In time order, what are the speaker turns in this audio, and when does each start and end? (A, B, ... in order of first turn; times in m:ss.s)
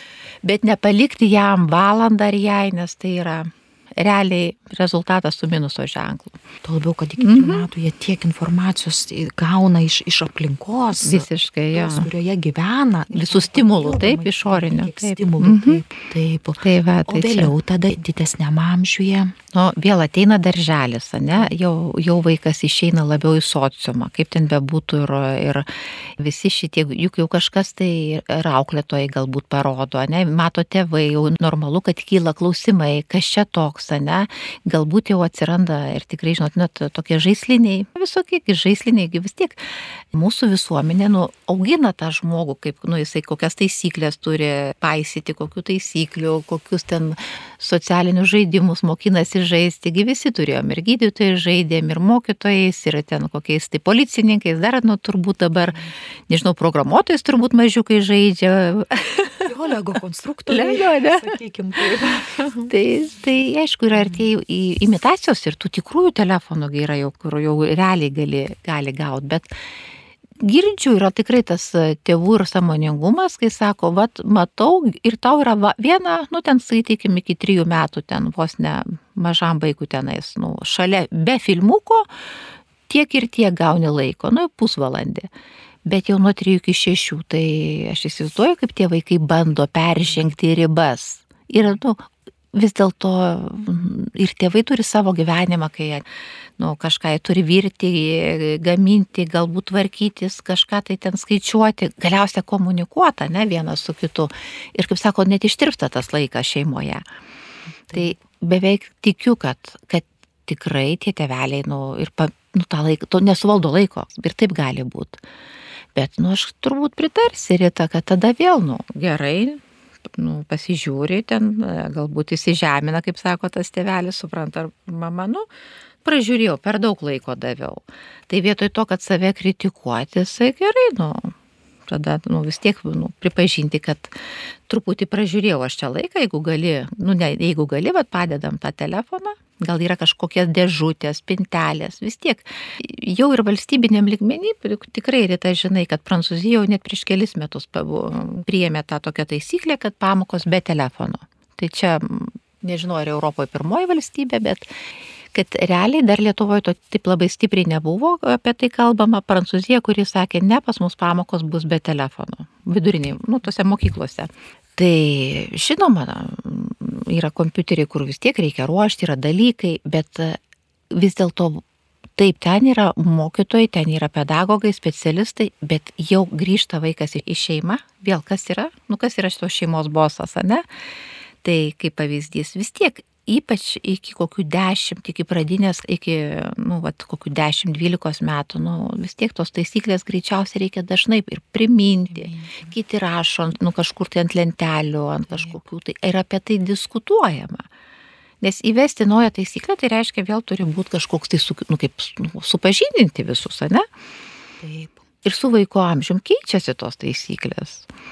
0:00.4-0:06.4 A
0:06.6-0:19.3 B
0:07.2-0:07.6 A
0:11.0-0:12.1 A
0:13.1-0:15.8 A
0:16.6-0:17.5 A
0:19.5-0:39.6 A
0:40.1-0:59.5 A
0:59.4-1:02.7 B
1:00.5-1:01.3 A
1:02.7-1:09.5 A
1:10.4-1:22.0 A
1:22.9-1:25.3 A
1:25.8-1:36.0 A
1:36.6-1:47.0 A
1:47.9-1:48.2 B
1:47.9-1:55.2 A
1:55.9-2:05.5 A
2:06.0-2:11.3 A
2:11.9-2:14.1 A
2:14.7-2:34.6 A
2:35.3-2:50.4 A
2:50.9-2:51.6 A
2:52.2-3:00.6 A
3:01.4-3:17.6 A
3:12.1-3:12.7 B
3:15.3-3:15.6 B
3:18.4-3:23.8 A
3:24.6-3:25.0 B
3:25.2-3:27.9 A